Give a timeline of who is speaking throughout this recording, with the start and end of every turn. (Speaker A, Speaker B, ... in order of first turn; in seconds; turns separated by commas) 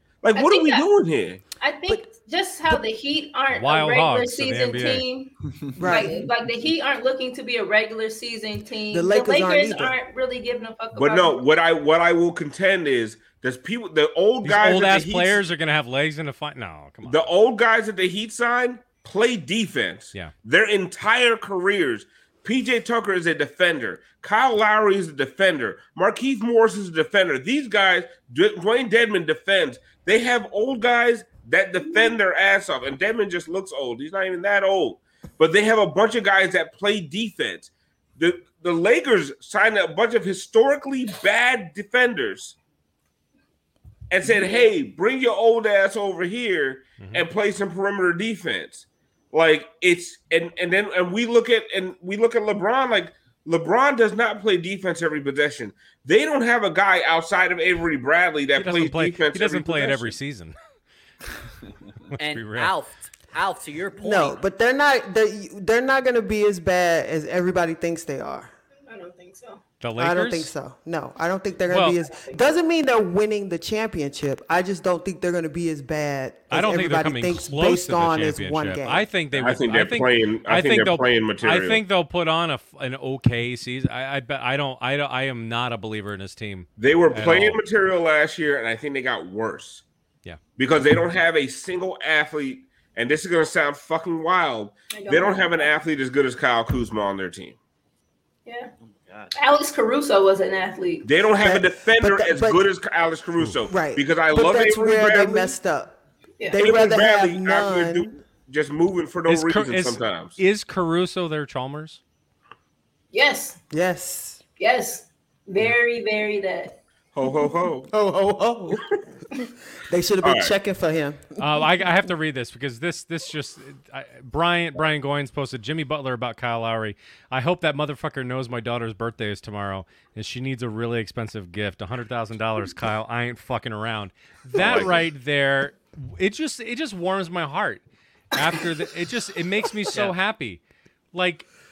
Speaker A: 0.2-1.4, Speaker B: 0.3-0.9, Speaker B: 1.6-11.4, Speaker C: 3.5-5.0, Speaker D: 5.8-6.2, Speaker D: 8.9-9.9, Speaker A: 10.9-15.4, Speaker C: 14.4-17.2, Speaker A: 17.0-42.5, Speaker A: 44.1-60.2, Speaker B: 44.2-44.7, Speaker C: 47.0-47.2, Speaker C: 58.5-60.5, Speaker C: 62.1-62.7, Speaker E: 62.2-64.4, Speaker D: 64.0-68.5, Speaker B: 68.9-69.6, Speaker C: 69.8-70.5, Speaker D: 70.0-79.1, Speaker C: 71.7-72.0, Speaker B: 72.0-72.5, Speaker C: 76.5-87.6, Speaker A: 79.3-81.8, Speaker A: 86.8-89.8, Speaker A: 90.6-97.6, Speaker B: 94.9-95.7, Speaker B: 98.5-98.7, Speaker E: 98.8-99.3, Speaker B: 99.3-101.1, Speaker A: 101.0-105.5, Speaker D: 101.4-102.7, Speaker D: 103.7-106.0, Speaker D: 106.5-108.2, Speaker A: 106.6-110.4, Speaker C: 109.3-112.0, Speaker B: 113.1-113.6, Speaker D: 113.7-114.4, Speaker B: 114.6-116.8, Speaker A: 117.1-117.9, Speaker D: 117.9-118.8, Speaker D: 119.3-121.3, Speaker A: 120.2-120.5, Speaker C: 121.4-140.6, Speaker A: 134.6-135.1, Speaker C: 141.1-141.5